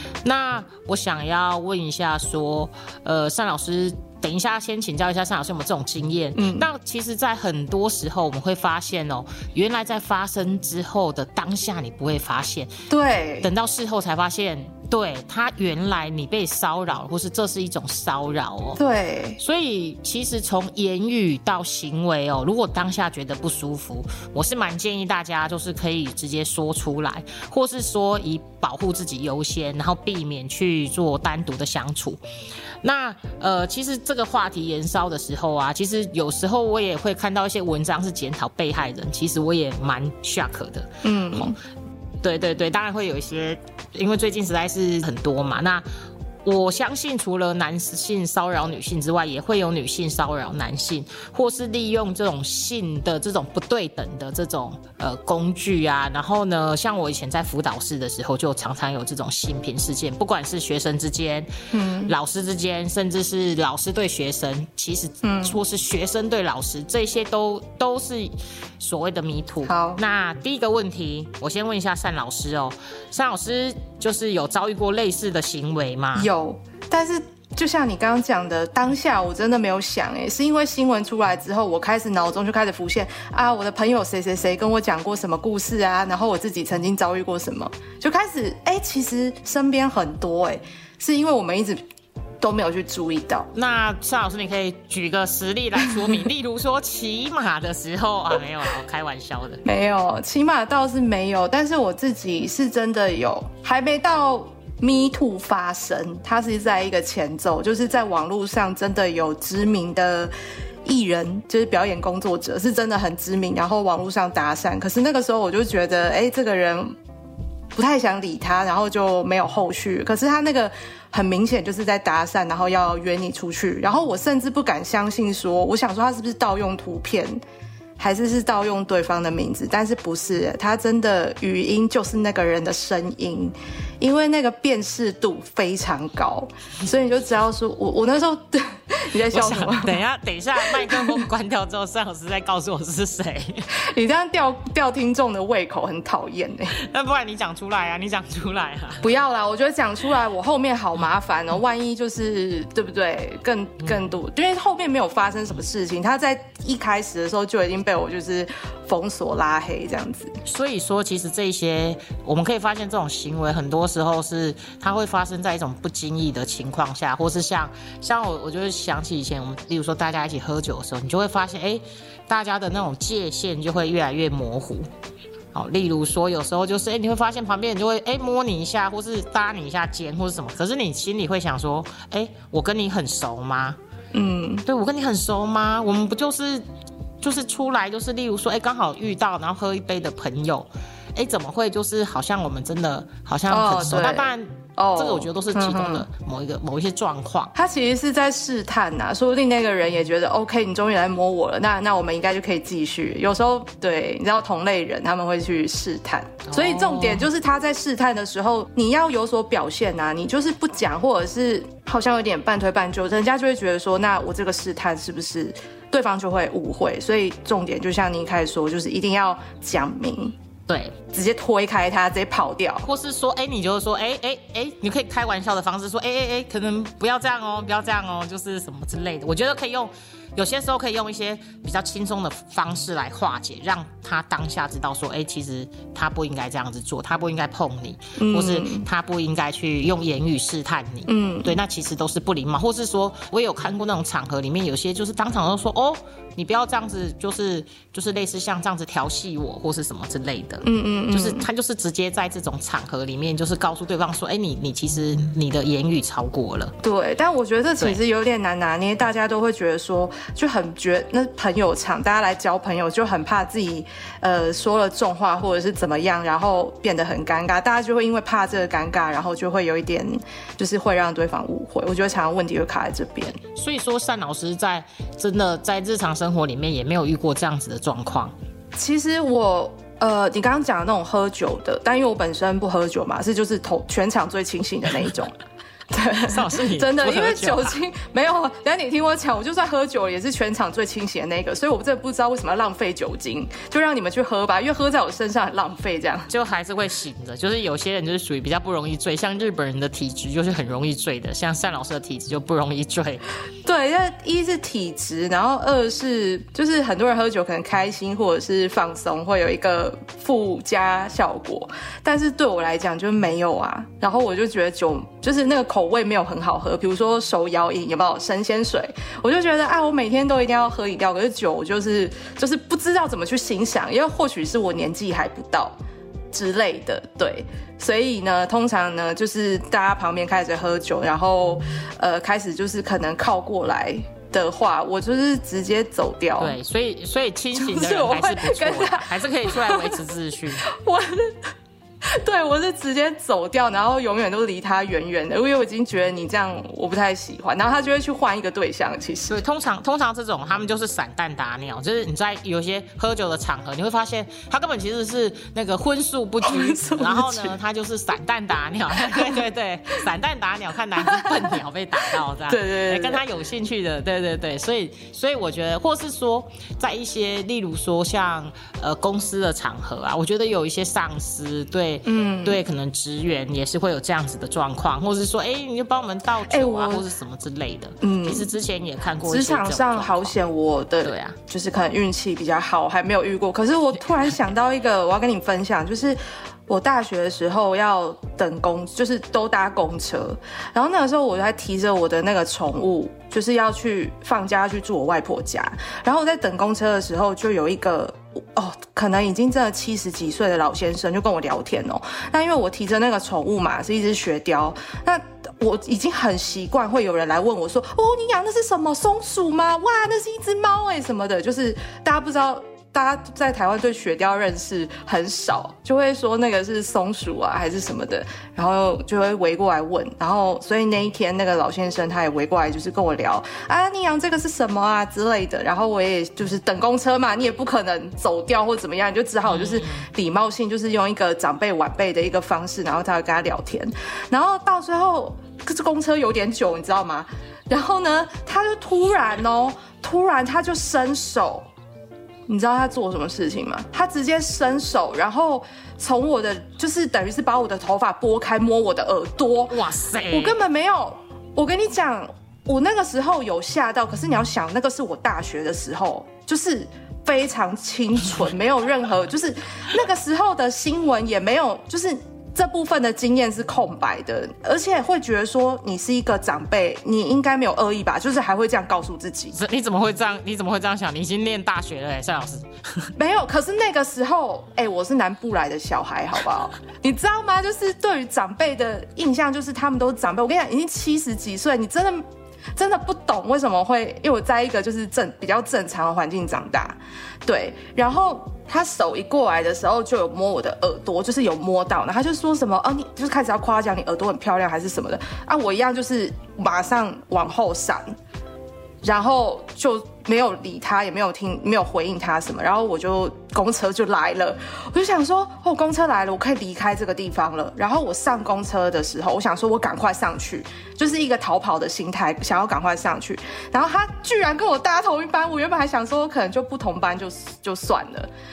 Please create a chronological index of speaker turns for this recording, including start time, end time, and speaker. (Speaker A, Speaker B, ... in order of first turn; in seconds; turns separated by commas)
Speaker A: 0.2-12.7, Speaker B: 6.3-6.7, Speaker B: 12.9-13.5, Speaker A: 13.4-18.8, Speaker B: 18.8-19.4, Speaker A: 19.4-32.2, Speaker A: 32.8-41.4, Speaker B: 41.0-41.6, Speaker A: 42.2-45.9, Speaker A: 46.5-61.5, Speaker B: 61.7-62.1, Speaker A: 62.1-76.3, Speaker B: 65.2-65.6, Speaker B: 69.7-70.0, Speaker B: 76.2-91.8, Speaker B: 92.4-93.5, Speaker A: 93.5-99.6, Speaker B: 99.7-110.3, Speaker B: 110.8-117.0, Speaker B: 117.8-127.4, Speaker B: 128.0-140.0, Speaker A: 139.3-143.8, Speaker B: 140.6-141.3, Speaker B: 143.7-146.8, Speaker A: 146.7-149.1, Speaker B: 149.0-160.3, Speaker A: 160.4-174.9, Speaker A: 175.5-183.8, Speaker B: 184.1-184.6, Speaker A: 184.7-186.7, Speaker A: 187.2-197.5, Speaker B: 193.5-196.1, Speaker B: 197.6-220.3, Speaker A: 206.5-207.3, Speaker A: 220.7-221.0, Speaker B: 221.1-222.9, Speaker A: 222.8-256.7, Speaker B: 238.2-238.9, Speaker B: 241.1-241.6, Speaker B: 250.6-251.5, Speaker B: 256.8-273.4, Speaker A: 273.6-278.3, Speaker B: 278.8-285.3, Speaker B: 285.9-296.3, Speaker A: 286.3-287.8, Speaker A: 296.3-303.2, Speaker B: 303.6-325.8, Speaker B: 326.3-336.6, Speaker A: 336.4-340.7, Speaker B: 337.5-340.0, Speaker B: 340.6-341.4, Speaker B: 342.0-349.4, Speaker A: 349.3-380.3, Speaker B: 356.4-357.6, Speaker B: 359.1-359.4, Speaker B: 361.1-361.6, Speaker B: 362.5-363.2, Speaker B: 372.1-372.6, Speaker B: 376.5-377.1, Speaker B: 378.0-378.5, Speaker B: 379.2-441.7, Speaker A: 381.0-381.4, Speaker A: 429.5-430.1, Speaker B: 442.5-449.8, Speaker A: 449.7-450.6, Speaker B: 450.3-469.6, Speaker A: 469.5-473.1, Speaker B: 473.2-482.2, Speaker B: 482.8-498.1, Speaker B: 499.0-518.3